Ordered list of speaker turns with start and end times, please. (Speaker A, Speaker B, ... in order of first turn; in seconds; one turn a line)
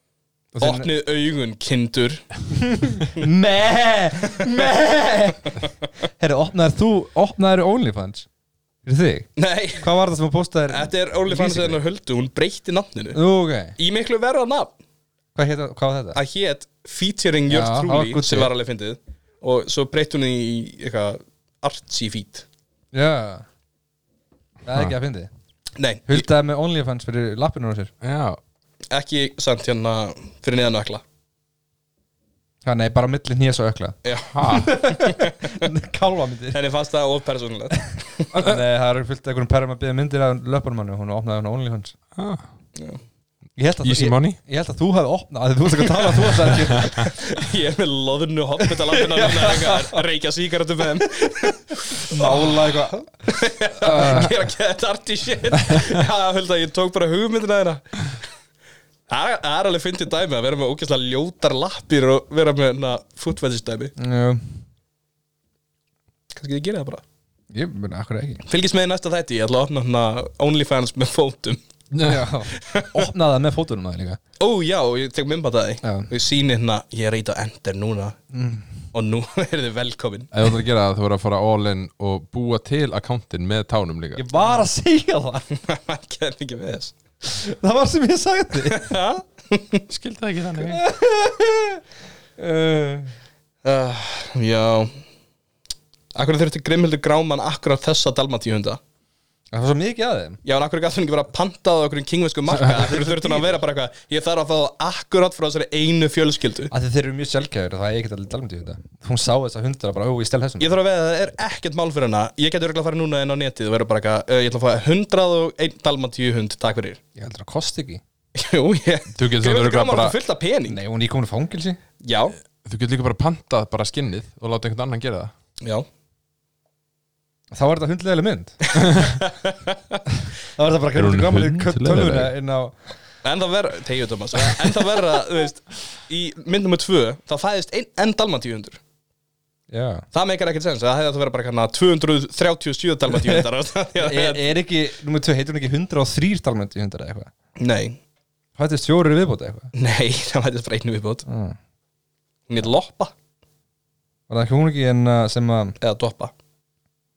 Speaker A: 0.5-0.9
Speaker B: 0.6-2.3
Speaker A: 2.5-5.5
Speaker B: 4.4-4.7
Speaker A: 6.2-8.3
Speaker A: 8.8-11.8
Speaker B: 9.4-9.9
Speaker B: 10.7-13.2
Speaker A: 13.1-13.8
Speaker B: 13.8-14.7
Speaker A: 15.3-16.2
Speaker B: 16.1-22.4
Speaker A: 17.5-18.5
Speaker A: 22.9-23.4
Speaker A: 24.6-25.3
Speaker B: 25.8-26.3
Speaker A: 26.1-27.9
Speaker C: 28.0-28.4
Speaker B: 28.9-31.0
Speaker A: 32.6-36.6
Speaker B: 34.0-34.4
Speaker C: 34.3-34.7
Speaker B: 34.9-35.7
Speaker B: 36.5-38.3
Speaker A: 38.3-42.0
Speaker C: 42.2-42.5
Speaker A: 43.6-47.1
Speaker C: 43.8-44.4
Speaker B: 47.0-58.1
Speaker A: 48.7-50.0
Speaker A: 52.0-53.1
Speaker A: 53.8-54.3
Speaker B: 59.1-63.9
Speaker A: 64.0-64.6
Speaker B: 66.3-67.0
Speaker A: 67.5-68.4
Speaker B: 68.5-71.6
Speaker C: 71.9-72.3
Speaker A: 72.0-74.2
Speaker B: 72.5-73.0
Speaker B: 74.4-78.2
Speaker A: 75.8-76.1
Speaker A: 78.3-78.7
Speaker B: 78.9-80.3
Speaker C: 80.3-84.3
Speaker A: 84.2-85.5
Speaker B: 85.6-87.0
Speaker A: 87.3-89.0
Speaker B: 88.7-89.8
Speaker C: 89.9-90.8
Speaker A: 90.6-91.8
Speaker A: 92.4-93.1
Speaker B: 93.6-95.0
Speaker B: 96.1-98.8
Speaker A: 99.5-100.4
Speaker B: 100.5-106.7
Speaker A: 102.6-103.6
Speaker A: 106.7-110.7
Speaker B: 110.6-117.0
Speaker A: 117.2-118.0
Speaker B: 118.3-120.8
Speaker C: 119.2-120.2
Speaker A: 120.7-121.8
Speaker B: 122.0-122.4
Speaker C: 122.6-125.3
Speaker A: 127.5-128.6
Speaker B: 129.0-130.0
Speaker A: 130.6-132.8
Speaker C: 131.0-132.3
Speaker B: 133.2-138.8
Speaker A: 134.4-134.7
Speaker A: 139.7-140.1
Speaker B: 140.1-144.4
Speaker A: 143.1-143.5
Speaker A: 144.0-147.3
Speaker B: 147.6-148.0
Speaker A: 148.6-149.7
Speaker B: 149.7-151.2
Speaker A: 151.3-151.6
Speaker B: 152.5-153.1
Speaker A: 154.3-155.8
Speaker B: 155.8-156.3